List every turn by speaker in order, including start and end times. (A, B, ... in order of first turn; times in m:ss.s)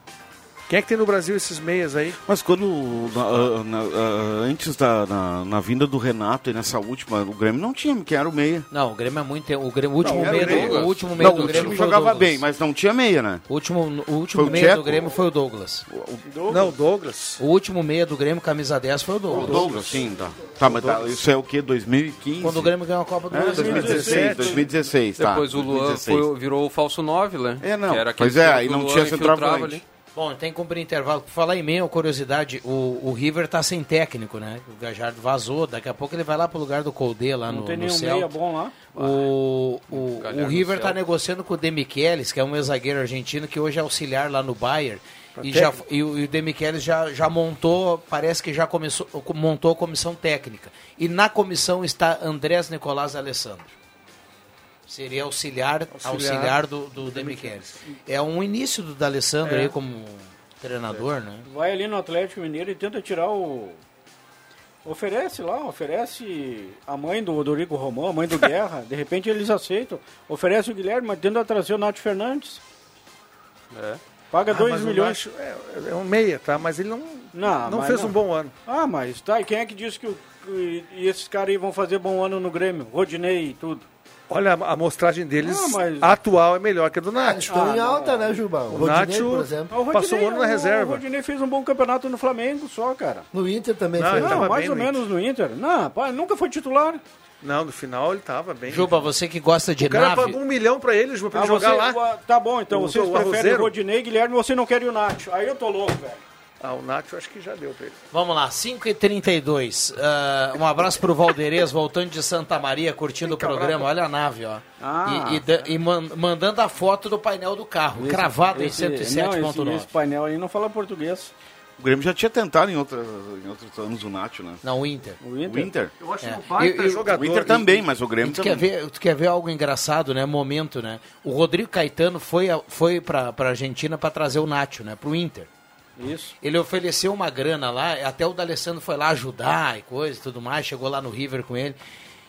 0:00.7-0:02.2 A
0:02.2-0:08.7 B
0:08.7-0:12.4 C
0:10.0-0:10.8 A
0:10.0-0:13.4 B
0:10.3-0:11.8 D
0:13.5-0:15.8 C
0:14.3-0:15.2 B
0:15.9-0:16.2 B
0:16.3-0:16.7 E
0:16.5-0:17.4 A
0:17.4-0:19.7 C
0:19.3-0:22.7 B
0:19.8-0:21.0 F
0:22.4-0:24.4 C
0:23.3-0:26.3 B
0:23.5-0:24.7 A
0:23.6-0:24.7 E
0:25.2-0:29.8 D
0:27.6-0:29.8 B
0:30.2-0:38.3 C
0:37.5-0:38.8 E
0:38.9-0:53.8 C
0:39.0-0:39.3 D
0:39.9-0:41.0 D
0:45.4-0:45.8 A
0:54.9-1:01.5 C
0:55.9-0:57.8 A
1:01.5-1:03.8 E
1:04.8-1:12.6 E
1:13.7-1:14.0 D
1:14.3-1:15.2 E
1:14.5-1:18.5 A
1:17.3-1:23.9 E
1:24.3-1:27.5 A
1:25.4-1:26.2 E
1:27.2-1:29.8 F
1:27.5-1:28.4 E
1:28.7-1:31.0 A
1:29.7-1:33.3 E
1:33.3-1:34.5 F
1:34.0-1:35.1 A
1:34.1-1:37.0 E
1:37.4-1:39.1 A
1:38.7-1:40.4 C
1:39.8-1:42.0 A
1:41.3-1:46.2 E
1:42.7-1:43.7 A
1:46.6-1:48.0 A
1:48.1-1:59.9 C
1:53.2-1:53.9 A
1:54.8-1:55.4 E
1:58.0-2:01.3 E
2:01.8-2:04.6 B
2:04.6-2:05.2 C
2:05.2-2:05.7 E
2:05.4-2:05.9 B
2:06.0-2:07.9 A
2:06.2-2:07.1 C
2:07.1-2:08.7 B
2:08.2-2:15.5 C
2:16.0-2:16.4 E
2:16.4-2:21.8 C